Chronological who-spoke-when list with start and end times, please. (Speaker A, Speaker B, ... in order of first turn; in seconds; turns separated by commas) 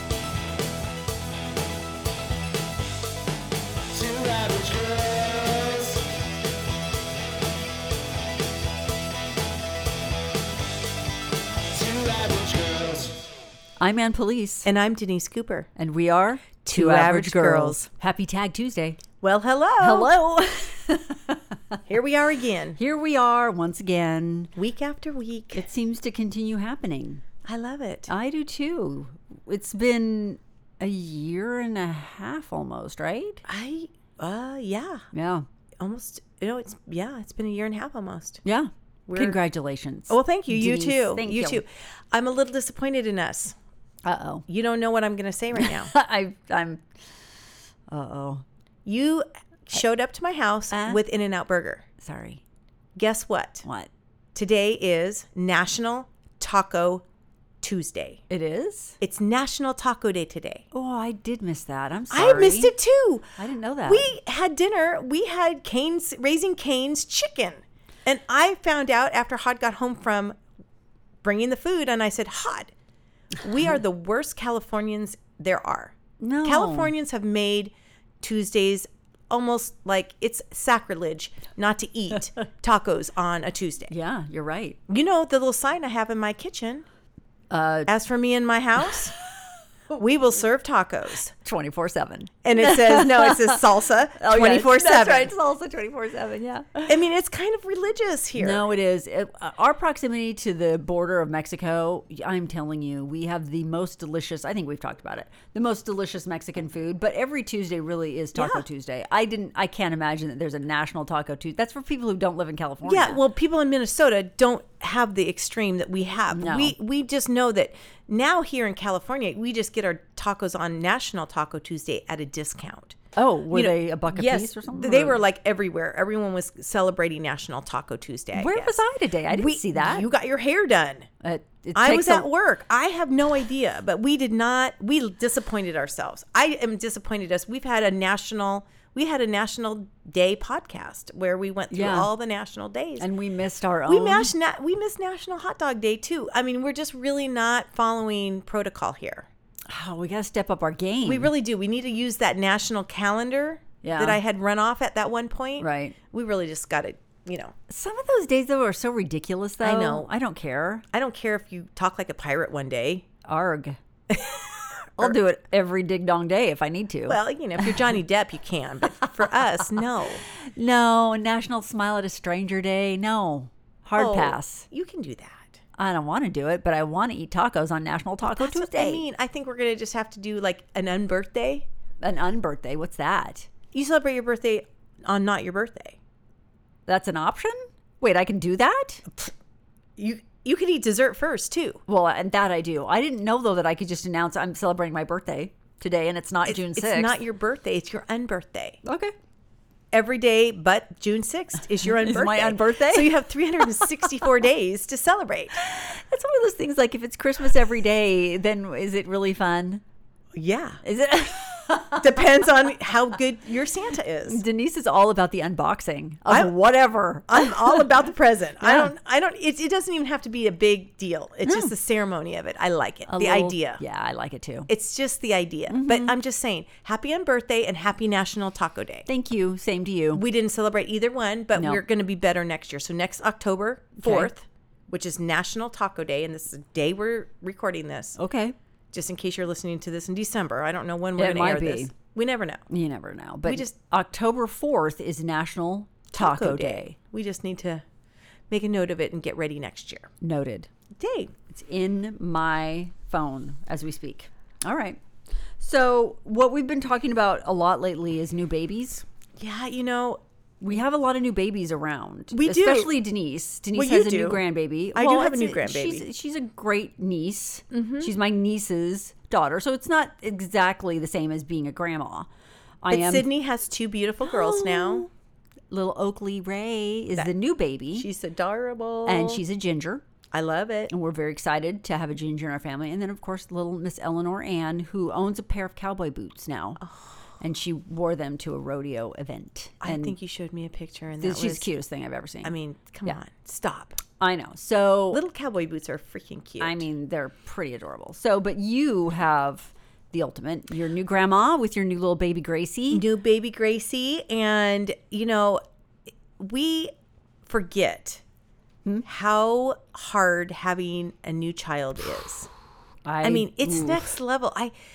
Speaker A: 3.9-6.0, Speaker A: 11.7-13.2, Speaker B: 13.8-14.7, Speaker C: 14.6-15.7, Speaker B: 15.8-19.0, Speaker C: 16.6-17.9, Speaker C: 19.2-20.1, Speaker B: 19.8-21.8, Speaker C: 21.9-22.8, Speaker B: 22.8-24.5, Speaker C: 24.5-25.7, Speaker B: 25.5-27.2, Speaker C: 27.4-28.1, Speaker B: 28.1-33.4, Speaker C: 33.5-35.1, Speaker B: 35.1-35.5, Speaker C: 35.8-38.4, Speaker B: 38.4-41.6, Speaker C: 39.1-39.4, Speaker C: 40.1-43.5, Speaker B: 44.0-44.4, Speaker C: 44.5-45.9, Speaker B: 45.5-46.9, Speaker B: 47.9-48.4, Speaker C: 48.8-51.8, Speaker B: 50.7-51.0, Speaker B: 52.0-52.4, Speaker C: 53.0-53.6, Speaker B: 53.6-53.9, Speaker C: 54.3-57.0, Speaker C: 57.6-58.2, Speaker B: 58.3-59.0, Speaker C: 59.0-60.6, Speaker B: 60.7-62.7, Speaker C: 62.1-63.3, Speaker B: 63.4-64.1, Speaker C: 63.8-70.4, Speaker C: 71.2-72.7, Speaker C: 73.4-83.9, Speaker B: 76.2-76.9, Speaker B: 83.9-84.8, Speaker C: 84.9-86.8, Speaker B: 87.5-87.9, Speaker C: 87.9-89.1, Speaker C: 89.9-91.3, Speaker B: 91.4-93.6, Speaker C: 92.4-95.3, Speaker B: 94.2-96.9, Speaker C: 96.9-98.6, Speaker B: 98.4-113.2, Speaker C: 108.3-108.6, Speaker C: 112.8-123.0, Speaker B: 116.3-116.7, Speaker B: 123.2-125.2, Speaker C: 123.5-131.1, Speaker B: 128.3-130.1, Speaker B: 131.2-132.3, Speaker C: 131.7-143.1, Speaker B: 141.7-142.1, Speaker B: 143.0-144.3, Speaker C: 143.9-149.3, Speaker B: 149.7-151.3, Speaker C: 151.1-157.5, Speaker B: 153.8-154.2, Speaker B: 155.6-155.9, Speaker B: 157.7-160.8, Speaker C: 159.6-160.1, Speaker C: 160.9-163.1, Speaker B: 163.2-163.8, Speaker C: 164.1-165.2, Speaker B: 165.0-167.8, Speaker C: 167.1-170.2, Speaker B: 170.3-174.7, Speaker C: 174.0-175.6, Speaker B: 175.8-179.0, Speaker C: 178.3-181.7, Speaker B: 182.0-183.5, Speaker C: 183.7-186.0, Speaker B: 186.9-189.0, Speaker C: 190.0-191.8, Speaker B: 191.9-197.2, Speaker C: 196.4-198.8, Speaker B: 198.8-199.1, Speaker C: 199.9-205.6, Speaker B: 201.8-203.2, Speaker B: 203.7-204.2, Speaker B: 205.6-209.8, Speaker C: 210.3-210.8, Speaker B: 210.8-212.2, Speaker C: 212.0-214.4, Speaker B: 214.3-218.0, Speaker C: 216.3-216.5, Speaker C: 217.3-223.8, Speaker B: 218.6-218.9, Speaker B: 221.4-221.7, Speaker B: 223.1-224.7, Speaker C: 224.7-229.1, Speaker B: 225.7-226.2, Speaker B: 229.1-230.2, Speaker C: 230.1-238.2, Speaker B: 231.5-231.8, Speaker B: 234.0-234.3, Speaker B: 238.2-238.5, Speaker C: 238.9-242.6, Speaker B: 241.2-241.9, Speaker B: 242.7-246.9, Speaker C: 243.4-243.7, Speaker C: 246.1-247.8, Speaker C: 248.5-250.1, Speaker B: 250.2-250.7, Speaker C: 250.9-251.3, Speaker B: 251.5-255.0, Speaker B: 255.6-259.0, Speaker C: 259.4-260.2, Speaker B: 260.6-272.3, Speaker C: 262.3-262.9, Speaker C: 263.7-264.4, Speaker C: 264.9-266.0, Speaker C: 267.7-268.1, Speaker B: 272.8-273.3, Speaker C: 272.9-275.1, Speaker B: 274.2-275.1, Speaker B: 275.7-278.1, Speaker C: 277.9-279.4, Speaker B: 279.1-280.0, Speaker C: 280.3-280.9, Speaker B: 280.9-286.8, Speaker B: 287.4-290.1, Speaker C: 289.8-291.7, Speaker B: 291.2-292.5, Speaker C: 292.4-294.0, Speaker B: 294.2-295.2, Speaker C: 295.1-296.9, Speaker B: 296.6-303.1, Speaker C: 302.9-305.6, Speaker C: 306.4-306.9, Speaker C: 307.4-308.2, Speaker C: 309.0-312.5, Speaker B: 313.1-314.1, Speaker C: 313.2-314.7